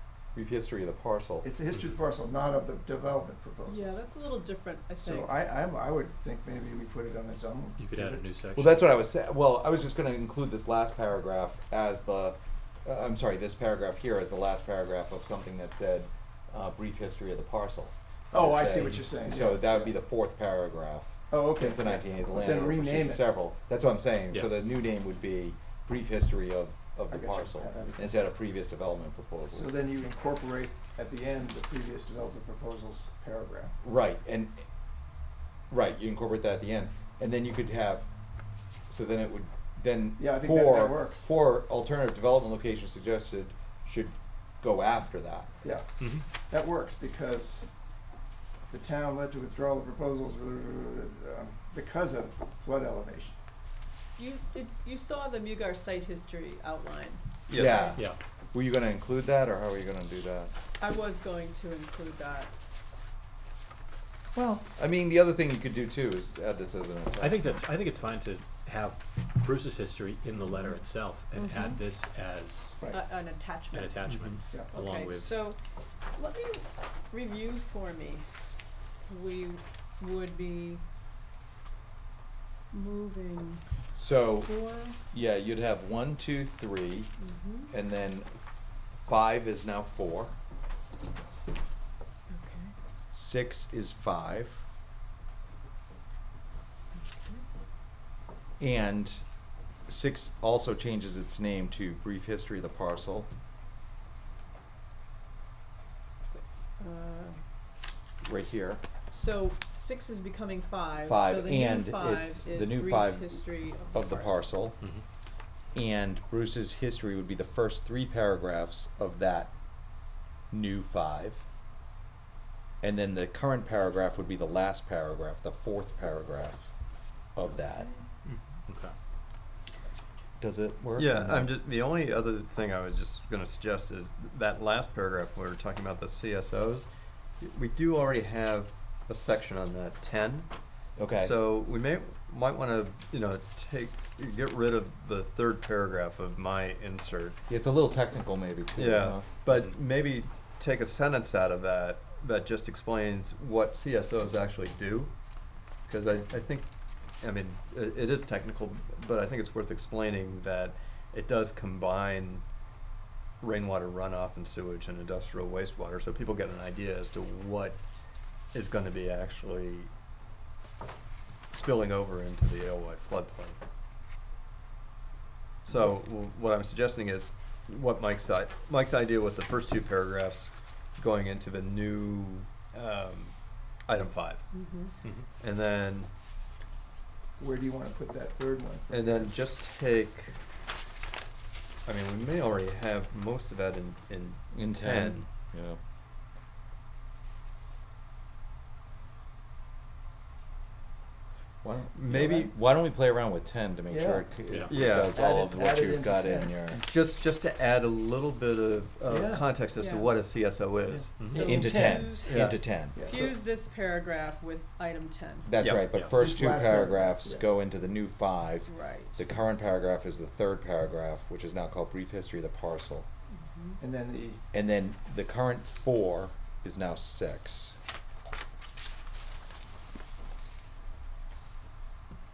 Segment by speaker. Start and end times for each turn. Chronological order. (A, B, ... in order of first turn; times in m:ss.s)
0:00.3-0:01.5 A
0:01.4-0:04.0 B
0:01.7-0:02.0 C
0:03.6-0:05.3 D
0:05.0-0:08.4 B
0:07.8-0:08.8 C
0:08.5-0:29.8 A
0:18.3-0:20.0 B
0:21.3-0:23.3 B
0:27.1-0:28.2 B
0:29.5-0:33.8 B
0:33.8-0:45.6 A
0:40.2-0:41.3 B
0:45.6-0:53.6 B
0:46.0-0:46.3 C
0:54.2-0:58.0 D
0:57.5-0:57.9 E
0:57.5-1:00.5 A
1:00.8-1:02.5 D
1:04.3-1:07.6 A
1:07.2-1:12.8 C
1:11.3-1:11.8 D
1:12.9-1:20.8 D
1:13.7-1:15.5 C
1:14.0-1:14.4 E
1:22.7-1:25.0 D
1:23.9-1:30.4 A
1:27.2-1:27.7 D
1:32.3-1:32.8 D
1:33.1-1:34.6 A
1:36.9-1:37.4 D
1:38.6-1:43.3 A
1:46.2-1:47.5 D
1:48.2-1:48.8 A
1:49.1-1:54.6 D
1:51.0-2:01.5 A
1:54.8-1:55.0 C
2:02.8-2:08.0 A
2:07.5-2:08.1 D
2:08.5-2:09.0 C
2:10.4-2:11.5 A
2:11.0-2:27.4 E
2:21.0-2:21.3 A
2:27.5-2:29.2 A
2:28.7-2:42.6 E
2:29.5-2:29.8 C
2:43.4-2:49.9 E
2:51.5-2:53.6 E
2:55.6-3:06.1 E
3:04.5-3:04.9 D
3:07.4-3:09.3 B
3:08.9-3:10.4 E
3:11.8-3:15.3 E
3:14.5-3:15.8 A
3:21.6-3:26.8 A
3:21.9-3:22.5 E
3:23.9-3:26.7 B
3:24.5-3:24.7 C
3:24.7-3:25.2 E
3:26.7-3:31.2 E
3:29.1-3:29.5 B
3:29.8-3:30.1 D
3:31.0-3:33.0 A
3:31.2-3:31.6 C
3:31.3-3:35.5 D
3:31.3-3:32.1 B
3:32.2-3:32.7 E
3:32.9-3:33.3 B
3:35.4-3:43.1 A
3:35.6-3:35.9 E
3:35.8-3:36.2 C
3:36.0-3:37.5 B
3:38.7-3:39.2 D
3:43.3-3:43.8 D
3:43.8-3:44.4 B
3:44.5-3:47.8 A